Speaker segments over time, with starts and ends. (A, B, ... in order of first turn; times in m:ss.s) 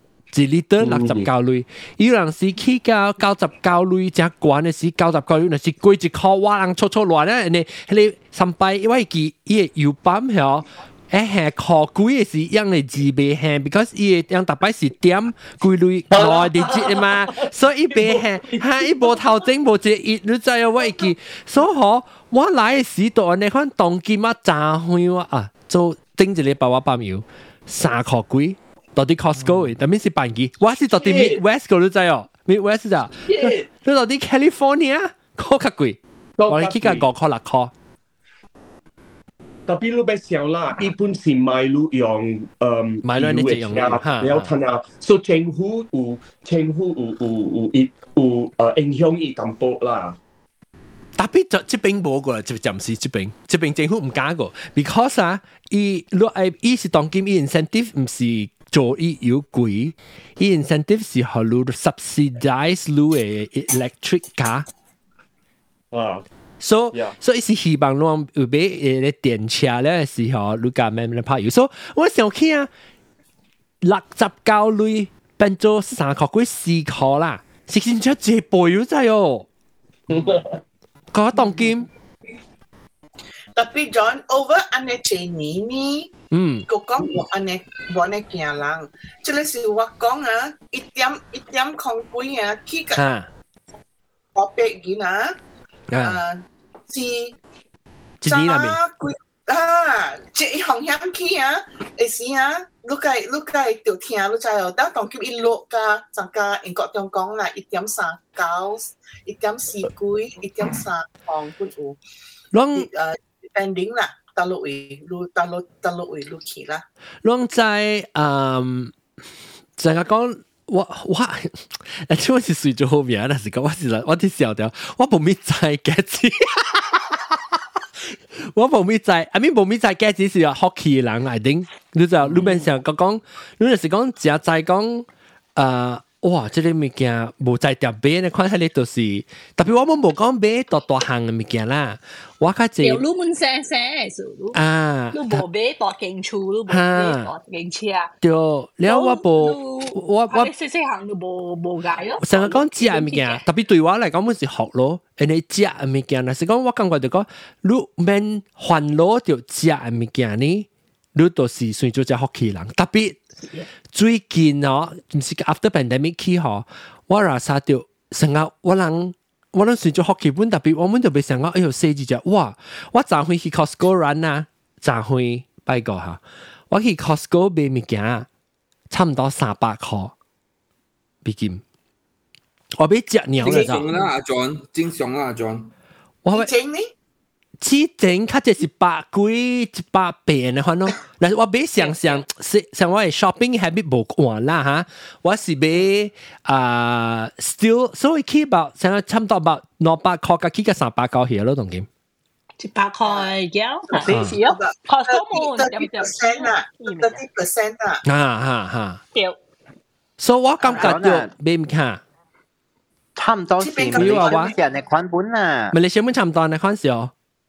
0:00.3-0:37.7 A
0:00.8-0:01.3 B
0:16.1-0:17.3 B
0:17.9-0:19.4 B
0:31.0-0:31.4 B
0:33.3-0:33.7 B
0:36.4-0:37.1 B
0:39.7-0:50.2 B
0:43.0-0:44.5 A
0:51.2-1:04.7 A
1:05.9-1:06.3 B
1:06.6-1:12.7 A
1:13.8-1:19.5 A
1:20.1-1:20.6 B
1:21.1-1:21.9 A
1:23.6-1:26.1 C
1:26.3-1:26.6 A
1:26.7-1:33.0 C
1:33.0-1:33.3 A
1:34.4-1:35.3 C
1:35.9-1:36.2 A
1:36.0-1:37.4 C
1:38.2-1:38.8 A
1:38.2-1:52.0 C
1:52.5-1:52.9 A
1:52.8-1:56.8 C
1:57.2-1:58.9 A
1:59.8-2:07.2 A
2:08.5-2:23.0 A
2:12.3-2:12.6 D
2:22.8-2:24.6 D
2:24.5-2:25.4 A
2:25.1-2:28.1 D
2:26.7-2:27.3 A
2:28.2-2:30.5 A
2:28.9-2:33.4 D
2:32.2-2:43.2 A
2:43.9-2:58.3 A
2:58.9-3:00.1 A
3:01.2-3:01.6 A
3:02.8-3:03.8 A
3:03.4-3:05.7 E
3:03.4-3:04.1 C
3:06.2-3:06.5 A
3:06.3-3:06.9 C
3:07.6-3:21.9 A
3:11.8-3:12.2 D
3:22.6-3:27.2 D
3:23.0-3:23.3 C
3:23.9-3:28.0 C
3:24.1-3:24.4 A
3:28.1-3:29.0 A
3:30.2-3:32.0 A
3:30.6-3:30.9 D
3:30.8-3:31.3 F
3:33.2-3:35.7 F
3:33.6-3:34.7 C
3:34.0-3:34.5 A
3:35.7-3:37.1 A